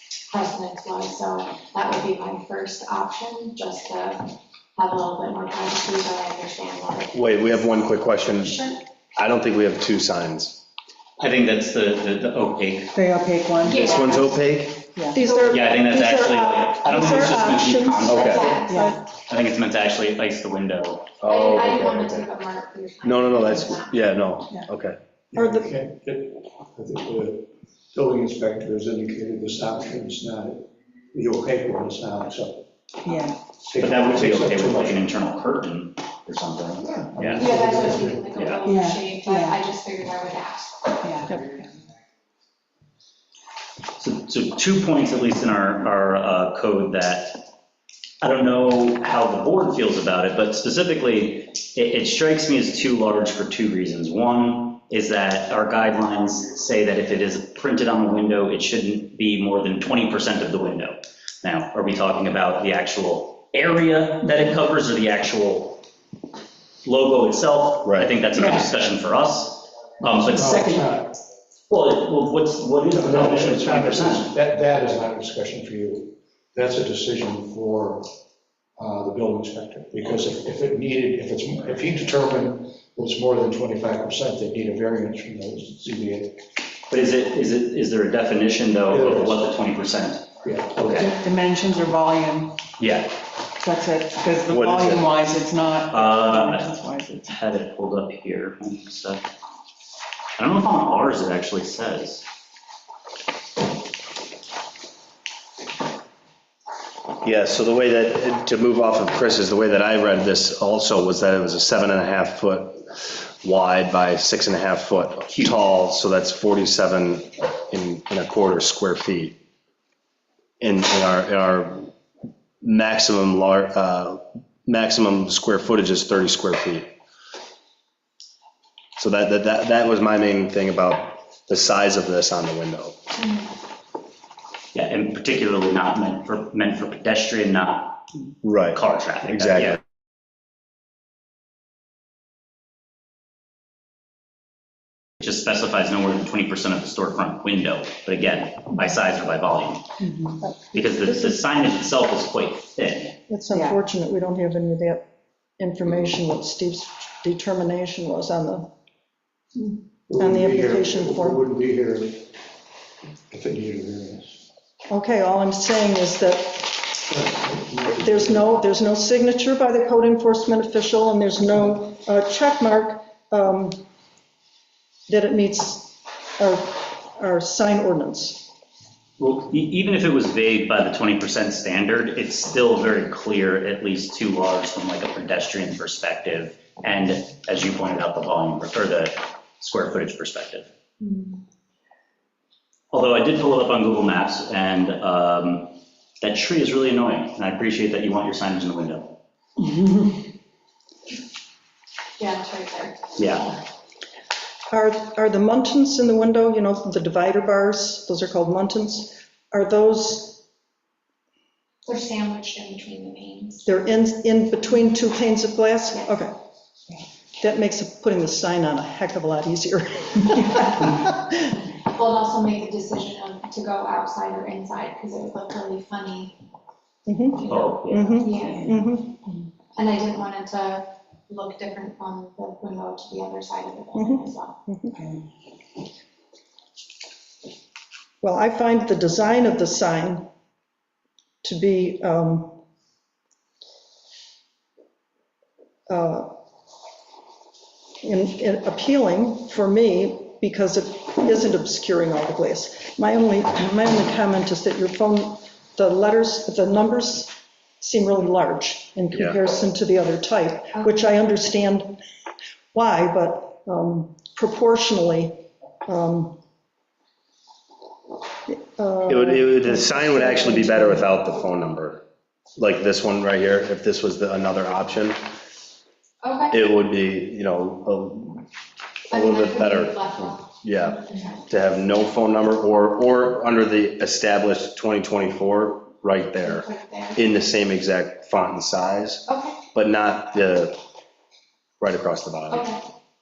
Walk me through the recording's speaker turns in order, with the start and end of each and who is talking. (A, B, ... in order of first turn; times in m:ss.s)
0:00.3-0:07.7 A
0:07.1-0:08.6 B
0:08.3-0:08.8 A
0:09.2-0:10.6 B
0:11.2-0:13.0 C
0:12.9-0:14.3 D
0:13.6-0:14.3 A
0:13.7-0:14.8 B
0:15.0-0:15.2 D
0:15.1-0:19.0 E
0:15.2-0:15.6 A
0:15.4-0:18.6 C
0:18.1-0:18.5 B
0:18.1-0:19.0 A
0:18.6-0:19.0 D
0:19.3-0:21.1 C
0:21.2-0:22.2 B
0:21.2-0:24.1 A
0:23.0-0:25.0 B
0:25.3-0:32.6 F
0:25.3-0:25.7 E
0:33.0-0:33.4 D
0:33.6-0:35.1 F
0:33.8-0:37.5 C
0:37.1-0:38.4 F
0:37.3-0:40.9 A
0:38.4-0:38.6 C
0:38.6-0:39.6 D
0:41.0-0:41.7 D
0:44.0-0:47.4 C
0:48.2-1:05.8 C
1:06.8-1:10.7 C
1:07.8-1:08.1 B
1:08.4-1:08.6 D
1:10.3-1:11.1 F
1:10.5-1:10.9 D
1:11.7-1:14.3 C
1:12.9-1:18.1 F
1:18.8-1:26.4 F
1:26.9-1:31.2 C
1:28.9-1:29.5 F
1:30.4-1:31.1 F
1:31.0-1:32.6 D
1:32.8-1:33.2 C
1:33.6-1:37.3 D
1:34.5-1:35.1 B
1:35.9-1:39.2 C
1:40.4-1:42.2 C
1:47.2-1:59.4 B
2:00.6-2:01.9 B
2:02.6-2:06.9 B
2:09.0-2:12.9 B
2:14.7-2:19.8 C
2:18.4-2:19.8 B
2:25.2-2:29.8 C
2:30.0-2:30.4 D
2:30.4-2:31.4 E
2:30.7-2:33.2 C
2:33.3-2:35.0 E
2:33.5-2:33.8 D
2:35.6-2:38.7 E
2:39.6-2:41.4 E
2:40.1-2:42.2 F
2:43.3-2:44.4 F
2:44.9-2:46.8 E
2:47.1-2:48.4 F
2:47.9-2:53.8 E
2:55.1-2:58.5 E
2:59.2-3:10.7 C
3:12.9-3:19.2 C
3:22.2-3:23.0 A
3:23.2-3:23.5 C
3:24.7-3:30.4 E
3:31.8-3:33.7 A
3:33.6-3:36.3 E
3:37.4-3:41.3 E
3:41.9-3:46.4 A
3:47.1-3:49.2 E
3:47.4-3:48.9 A
3:47.5-3:48.6 C
3:49.7-3:54.6 A
3:53.9-3:55.0 E
3:58.2-4:00.3 E
4:01.4-4:02.6 E
4:05.9-4:06.3 E
4:08.0-4:22.0 E
4:22.7-4:26.4 E
4:28.5-4:31.1 E
4:29.1-4:32.0 B
4:32.6-4:35.2 B
4:36.2-4:36.6 A
4:36.5-4:38.4 B
4:39.1-4:41.4 A
4:39.1-4:50.8 B
4:46.4-4:47.2 A
4:49.3-4:49.6 A
4:51.8-4:52.6 B
4:52.5-4:52.8 A